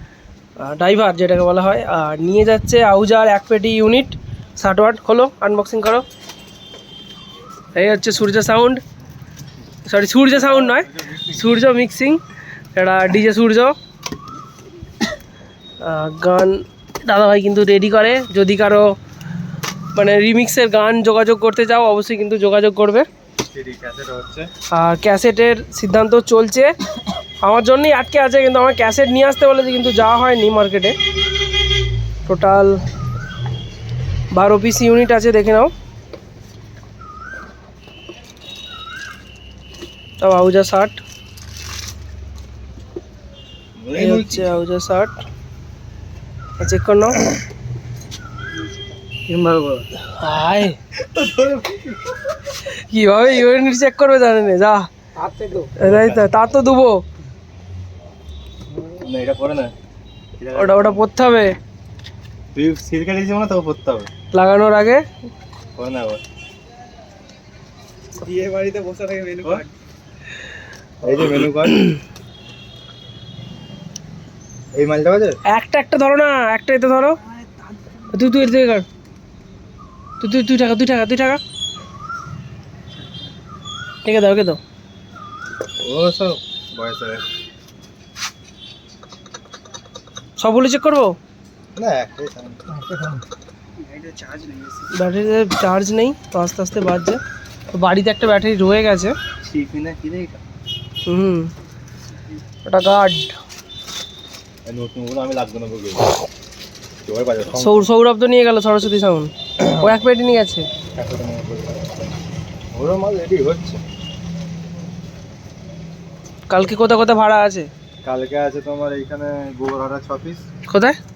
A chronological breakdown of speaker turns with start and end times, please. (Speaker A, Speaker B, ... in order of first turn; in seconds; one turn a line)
Speaker A: 0.6-6.0
Speaker A: 7.7-8.8
Speaker A: 9.9-12.2
Speaker B: 10.3-11.4
Speaker A: 12.8-13.8
Speaker A: 15.8-18.9
Speaker A: 19.9-23.1
Speaker B: 23.4-24.5
Speaker A: 24.7-26.7
Speaker A: 27.4-31.0
Speaker A: 32.3-32.8
Speaker A: 34.3-35.7
Speaker A: 40.2-41.0
Speaker B: 43.8-44.5
Speaker A: 44.0-45.2
Speaker A: 46.6-47.3
Speaker C: 49.1-49.9
Speaker A: 50.0-50.8
Speaker B: 51.0-52.2
Speaker A: 52.7-54.9
Speaker C: 55.2-55.7
Speaker A: 55.8-57.0
Speaker B: 55.8-56.5
Speaker B: 58.9-59.7
Speaker B: 60.4-61.1
Speaker A: 60.5-61.5
Speaker B: 62.5-64.1
Speaker A: 64.3-65.0
Speaker B: 65.8-66.2
Speaker C: 68.3-69.5
Speaker B: 71.0-71.9
Speaker B: 74.7-75.4
Speaker A: 75.5-77.2
Speaker A: 77.9-78.8
Speaker A: 80.2-81.4
Speaker A: 84.0-84.6
Speaker B: 85.8-87.2
Speaker A: 90.4-91.2
Speaker B: 91.8-92.8
Speaker C: 93.9-94.7
Speaker A: 94.9-97.2
Speaker A: 97.7-99.2
Speaker B: 99.4-100.4
Speaker A: 101.0-101.5
Speaker A: 102.7-103.4
Speaker B: 104.7-106.2
Speaker B: 107.0-107.9
Speaker A: 107.5-110.7
Speaker B: 110.9-111.9
Speaker B: 112.7-113.8
Speaker A: 116.5-117.7
Speaker B: 118.0-120.4
Speaker A: 120.7-121.0